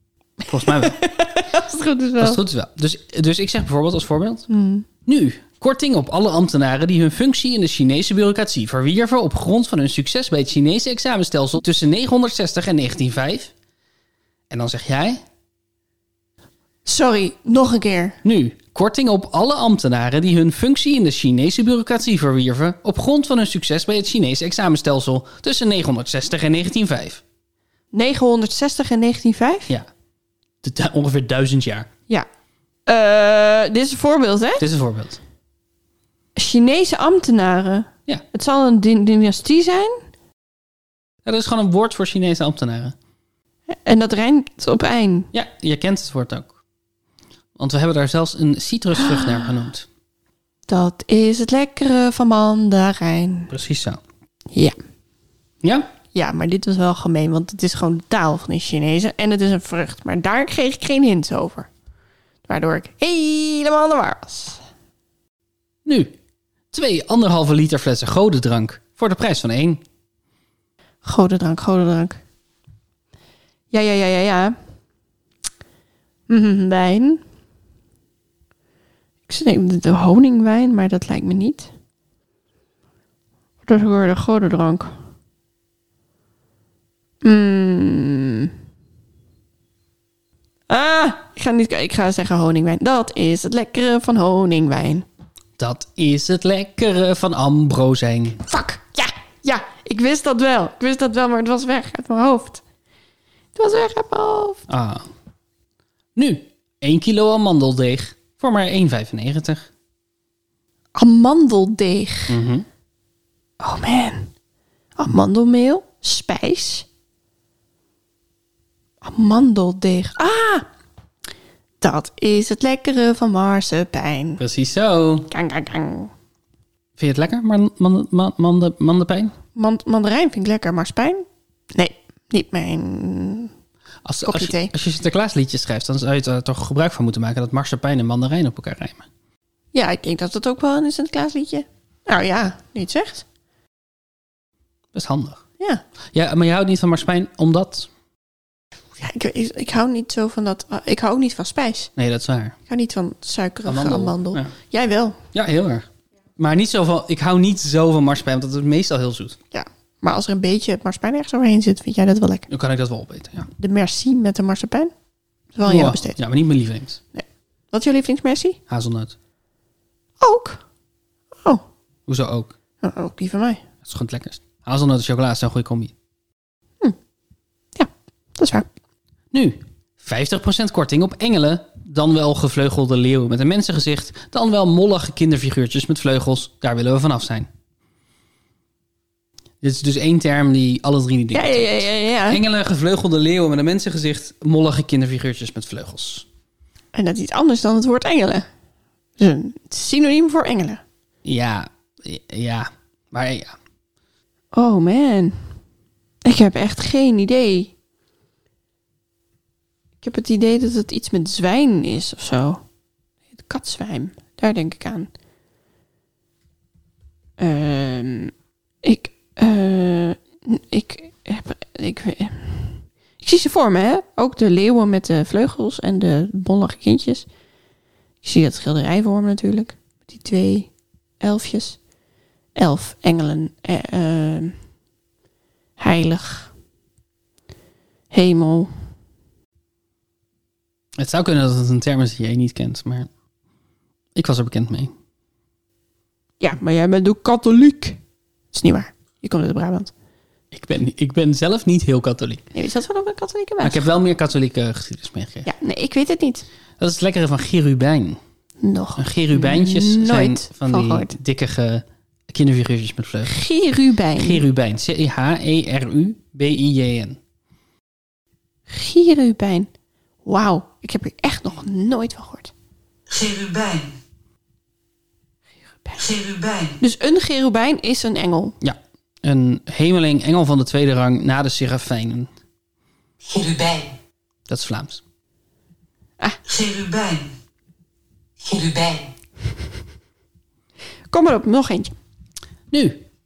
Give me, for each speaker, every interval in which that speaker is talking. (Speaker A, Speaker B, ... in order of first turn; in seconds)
Speaker A: 0.5-1.0, 2.2-4.5, 5.0-13.5, 14.5-15.2, 18.2-27.2, 30.6-31.9, 34.6-35.2, 41.2-43.0, 45.3-46.5, 47.6-49.9, 53.5-54.0, 55.6-55.9, 65.8-66.1, 66.7-69.8, 95.6-98.4, 104.7-105.1, 106.2-109.7, 112.3-112.7, 124.4-125.3, 127.0-129.3, 134.1-139.1, 144.9-145.4, 146.1-147.9, 152.0-152.6, 153.7-154.5, 155.3-155.9, 156.4-159.4, 162.5-163.5, 165.7-167.0, 168.7-169.2, 172.1-172.6, 173.8-175.9, 179.3-187.5, 189.6-196.3, 201.2-203.6, 241.0-243.1, 244.2-244.9, 250.5-252.5, 253.6-255.5, 256.8-258.2, 259.0-263.4, 264.2-267.2, 278.6-282.3, 284.5-285.0, 292.7-293.0
Speaker B: 0.6-2.4, 4.5-4.9, 16.9-18.2, 27.9-29.7, 32.9-34.6, 36.4-40.0, 43.7-45.3, 50.7-53.5, 56.1-61.7, 62.5-64.6, 71.0-72.2, 73.7-74.5, 76.3-77.2, 79.3-81.7, 83.7-84.9, 87.2-88.5, 90.7-95.1, 98.5-102.6, 103.6-104.7, 111.0-112.4, 113.6-114.3, 115.0-116.9, 119.0-120.7, 121.8-124.4, 125.3-126.1, 129.6-133.5, 134.2-134.7, 139.7-143.3, 149.0-151.9, 152.7-155.2, 159.5-162.5, 163.6-164.9, 165.6-166.2, 167.1-168.6, 170.2-170.6, 172.8-173.6, 177.8-178.7, 191.3-192.4, 196.9-198.5, 199.2-200.8, 204.5-205.4, 206.2-207.7, 210.0-212.6, 213.4-215.1, 217.4-218.3, 218.8-227.3, 228.2-230.7, 231.2-231.8, 232.6-234.6, 235.8-236.5, 238.1-238.7, 246.4-248.0, 248.5-249.9, 252.5-253.9, 255.4-256.4, 258.6-261.1, 263.2-264.4, 268.7-269.7, 270.2-272.5, 276.8-278.6, 291.1-291.9
Speaker C: 273.1-274.0, 276.0-276.8, 283.2-283.9, 286.5-287.3, 288.4-289.1